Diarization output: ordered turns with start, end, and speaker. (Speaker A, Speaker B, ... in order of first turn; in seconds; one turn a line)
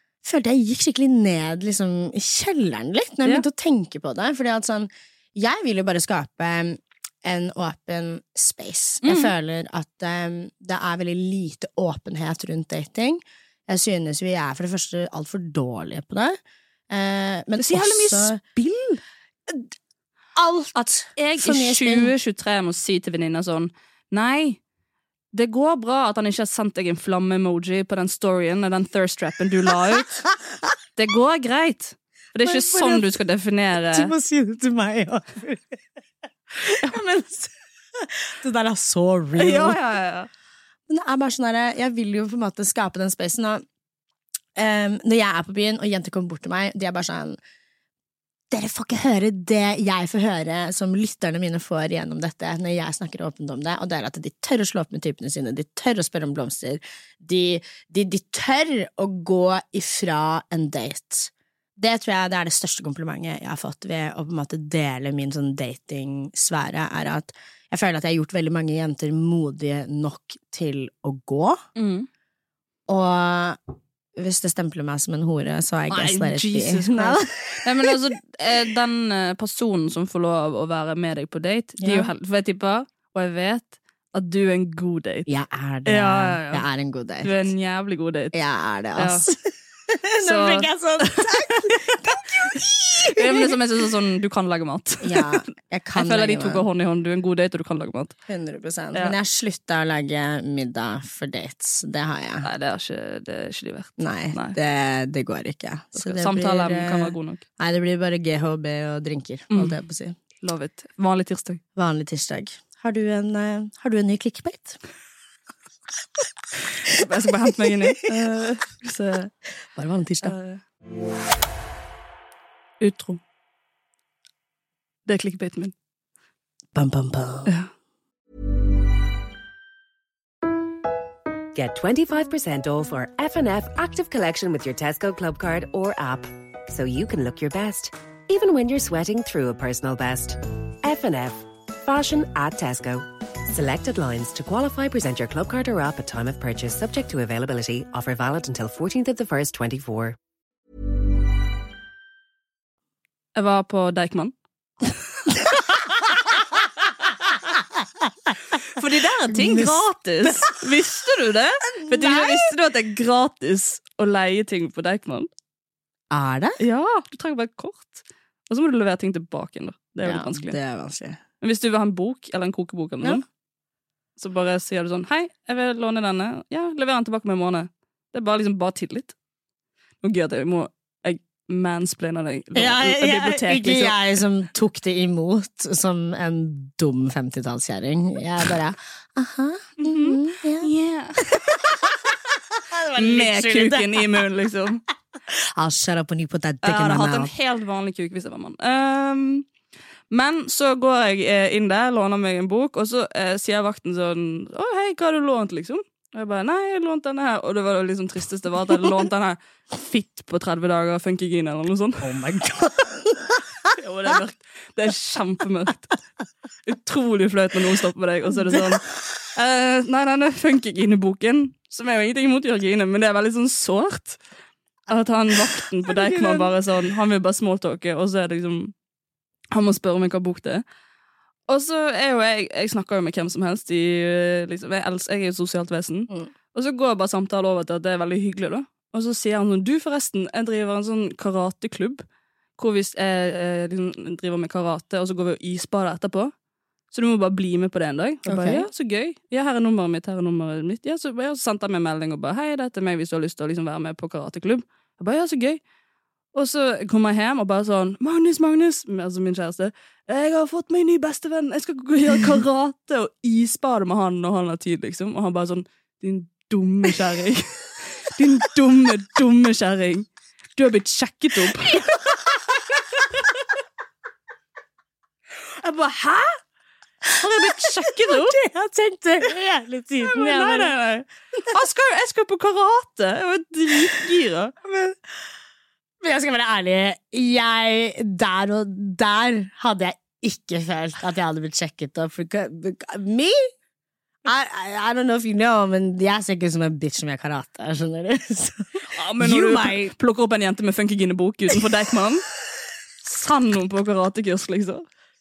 Speaker A: 0.2-16.4
Speaker B: 9.0-9.3
Speaker A: 16.9-18.4
Speaker B: 17.6-19.0
Speaker A: 20.3-22.1
Speaker B: 21.1-24.6
Speaker B: 25.3-30.2
Speaker B: 30.9-34.1
Speaker A: 32.4-33.2
Speaker A: 33.9-35.8
Speaker A: 36.5-39.8
Speaker B: 39.4-40.3
Speaker A: 40.9-43.6
Speaker A: 44.5-47.4
Speaker A: 48.5-71.6
Speaker B: 71.8-72.1
Speaker A: 72.9-73.6
Speaker A: 74.2-77.9
Speaker B: 75.9-85.3
Speaker A: 81.8-82.1
Speaker A: 85.3-87.4
Speaker B: 85.8-86.6
Speaker B: 87.2-88.4
Speaker A: 88.3-93.5
Speaker B: 89.0-89.2
Speaker B: 90.2-92.0
Speaker B: 93.0-95.4
Speaker A: 95.0-96.6
Speaker B: 95.9-98.1
Speaker A: 98.3-102.5
Speaker B: 102.4-104.6
Speaker A: 104.0-110.2
Speaker B: 105.9-107.4
Speaker B: 110.4-111.6
Speaker A: 111.8-114.8
Speaker B: 116.8-119.3
Speaker A: 119.8-120.3
Speaker B: 120.2-120.6
Speaker B: 122.8-123.2
Speaker B: 125.0-125.7
Speaker A: 126.7-127.5
Speaker C: 131.5-150.2
Speaker B: 153.3-154.3
Speaker B: 158.7-165.3
Speaker A: 159.3-160.3
Speaker A: 161.8-162.5
Speaker A: 166.1-166.6
Speaker B: 166.6-170.6
Speaker A: 170.0-171.2
Speaker B: 171.4-173.2
Speaker B: 174.2-179.1
Speaker B: 180.0-183.9
Speaker A: 182.5-190.7
Speaker B: 189.8-191.2
Speaker A: 191.2-194.2
Speaker B: 193.0-194.8
Speaker A: 195.3-197.3
Speaker B: 196.6-199.5
Speaker B: 200.1-212.1
Speaker A: 212.0-213.4
Speaker B: 213.7-215.9
Speaker B: 216.7-218.8
Speaker B: 219.3-224.2
Speaker B: 224.9-228.7
Speaker A: 225.9-226.5
Speaker B: 229.5-230.6
Speaker B: 231.5-242.0
Speaker B: 242.6-246.3
Speaker B: 246.9-255.6
Speaker A: 248.2-248.7
Speaker B: 256.3-271.9
Speaker A: 271.7-272.5
Speaker B: 275.6-276.4
Speaker B: 277.1-278.4
Speaker A: 277.4-280.8
Speaker B: 280.0-284.5
Speaker A: 284.6-285.0
Speaker A: 286.0-293.5
Speaker A: 294.2-299.9
Speaker B: 298.9-302.2
Speaker B: 303.0-304.9